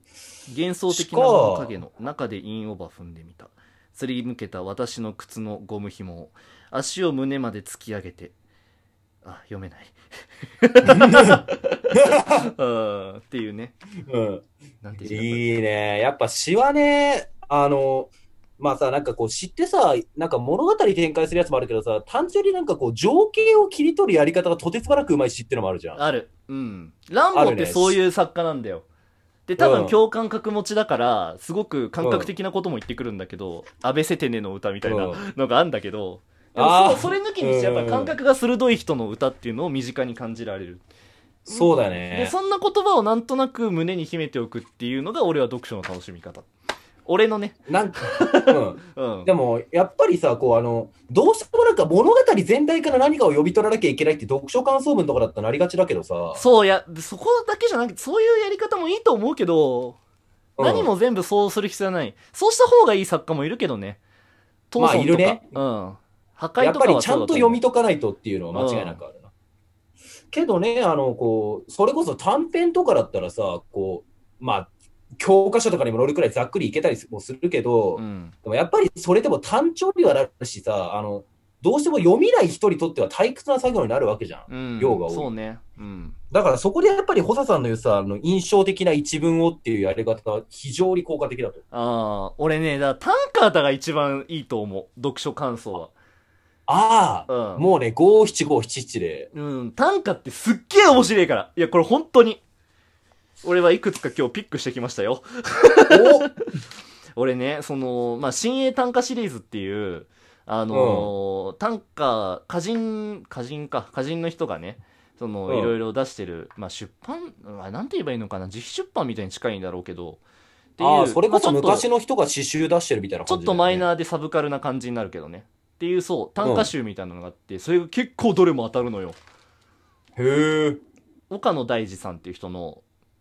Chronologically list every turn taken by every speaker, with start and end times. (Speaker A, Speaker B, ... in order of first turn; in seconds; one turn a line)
Speaker A: 0.5-8.3
Speaker B: 0.9-1.7
Speaker A: 9.2-9.9
Speaker A: 10.6-13.7
Speaker B: 10.8-12.5
Speaker B: 14.1-14.4
Speaker A: 14.8-15.5
Speaker B: 15.0-26.0
Speaker A: 25.9-28.8
Speaker B: 27.3-28.0
Speaker A: 29.4-40.8
Speaker B: 29.6-30.0
Speaker B: 32.0-32.3
Speaker B: 34.8-35.2
Speaker B: 36.5-38.1
Speaker B: 41.4-42.3
Speaker A: 41.5-46.5
Speaker A: 47.0-49.3
Speaker B: 47.7-56.4
Speaker A: 56.3-60.0
Speaker B: 60.6-60.9
Speaker A: 60.6-64.0
Speaker A: 64.7-67.6
Speaker B: 64.8-65.5
Speaker B: 66.6-69.3
Speaker A: 68.5-69.0
Speaker B: 70.3-85.3
Speaker A: 78.0-78.3
Speaker A: 84.5-86.2
Speaker B: 86.3-91.6
Speaker A: 91.7-95.9
Speaker B: 96.7-99.3
Speaker A: 97.3-97.7
Speaker A: 99.3-102.4
Speaker A: 103.4-106.4
Speaker B: 105.9-106.3
Speaker A: 107.2-120.2
Speaker B: 110.7-111.1
Speaker B: 115.5-115.7
Speaker A: 120.8-121.9
Speaker B: 120.8-123.9
Speaker A: 123.2-129.2
Speaker B: 126.4-126.7
Speaker B: 130.2-130.8
Speaker A: 131.3-132.8